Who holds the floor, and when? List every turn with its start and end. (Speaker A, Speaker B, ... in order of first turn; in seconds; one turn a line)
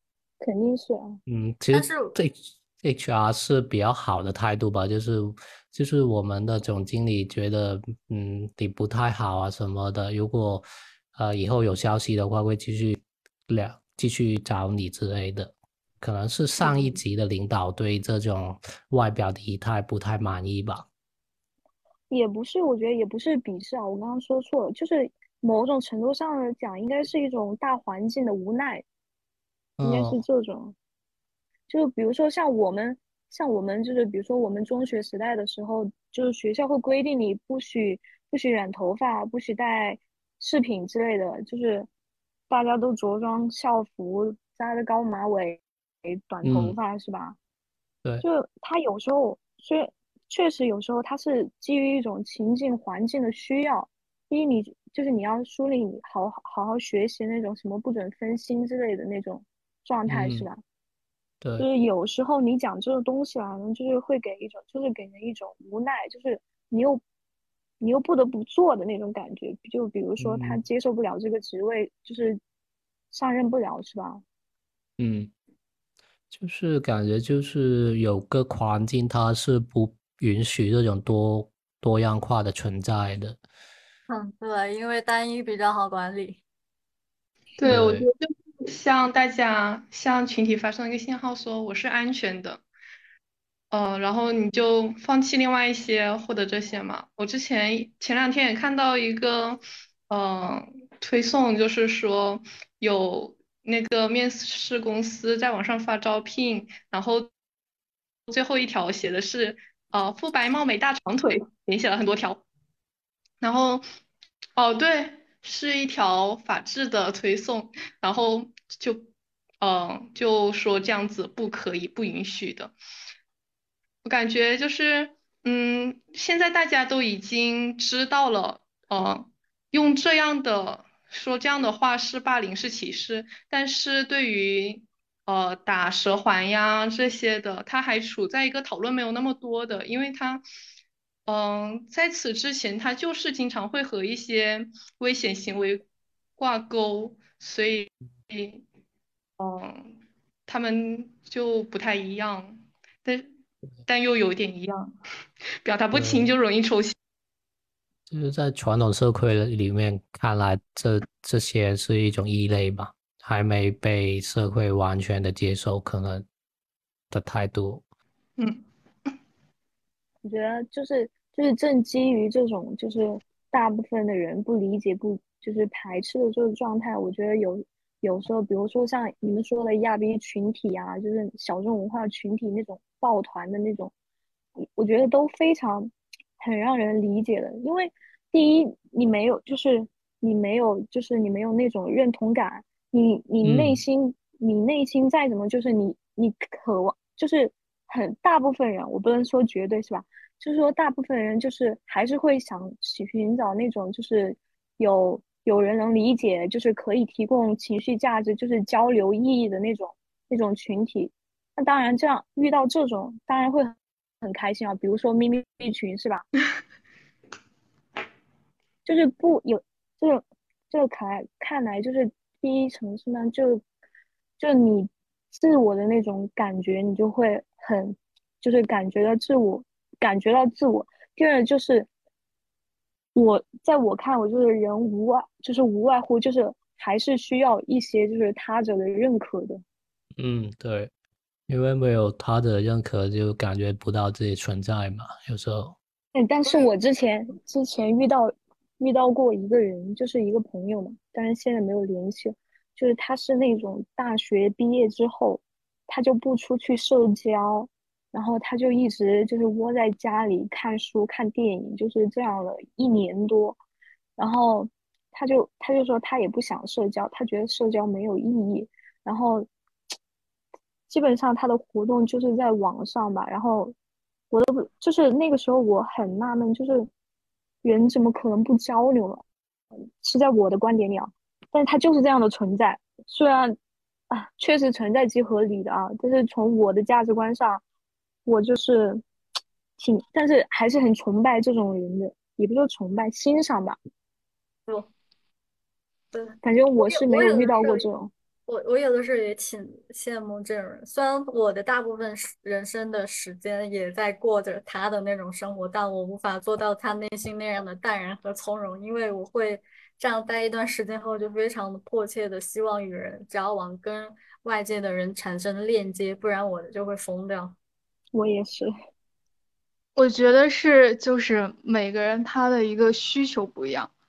Speaker A: 0.4-1.2
Speaker B: 1.3-20.9
Speaker C: 1.7-2.1
Speaker A: 22.1-28.8
Speaker B: 29.8-30.2
Speaker A: 29.8-30.8
Speaker A: 31.7-41.9
Speaker A: 42.5-47.4
Speaker B: 46.4-46.8
Speaker A: 48.2-60.6
Speaker B: 60.1-60.5
Speaker A: 61.6-67.0
Speaker A: 67.8-72.4
Speaker B: 70.2-70.6
Speaker A: 73.1-74.2
Speaker B: 75.0-75.3
Speaker B: 76.3-83.4
Speaker C: 84.1-86.4
Speaker D: 87.6-92.6
Speaker B: 87.7-88.1
Speaker D: 93.7-107.3
Speaker D: 108.3-112.4
Speaker D: 113.4-113.8
Speaker D: 114.5-119.1
Speaker D: 119.6-122.7
Speaker D: 124.0-140.4
Speaker D: 141.3-145.8
Speaker D: 146.4-148.6
Speaker D: 149.4-149.9
Speaker D: 150.5-153.3
Speaker D: 153.9-154.9
Speaker D: 155.6-156.9
Speaker B: 155.9-156.3
Speaker B: 158.1-166.2
Speaker B: 167.1-167.8
Speaker D: 168.4-168.6
Speaker A: 170.2-183.9
Speaker A: 184.6-216.2
Speaker B: 193.4-193.8
Speaker A: 218.8-223.6
Speaker A: 224.4-231.9
Speaker A: 233.1-239.6
Speaker B: 240.2-240.9
Speaker B: 241.5-245.8
Speaker A: 246.1-263.6
Speaker A: 264.2-269.5
Speaker A: 270.9-273.7
Speaker A: 274.3-276.9
Speaker A: 277.6-279.2
Speaker A: 280.0-283.6
Speaker A: 284.1-287.6
Speaker A: 288.2-289.0
Speaker A: 289.8-293.8
Speaker C: 296.1-297.9
Speaker A: 296.4-298.1
Speaker C: 298.5-317.6
Speaker A: 318.1-318.7
Speaker E: 319.9-323.9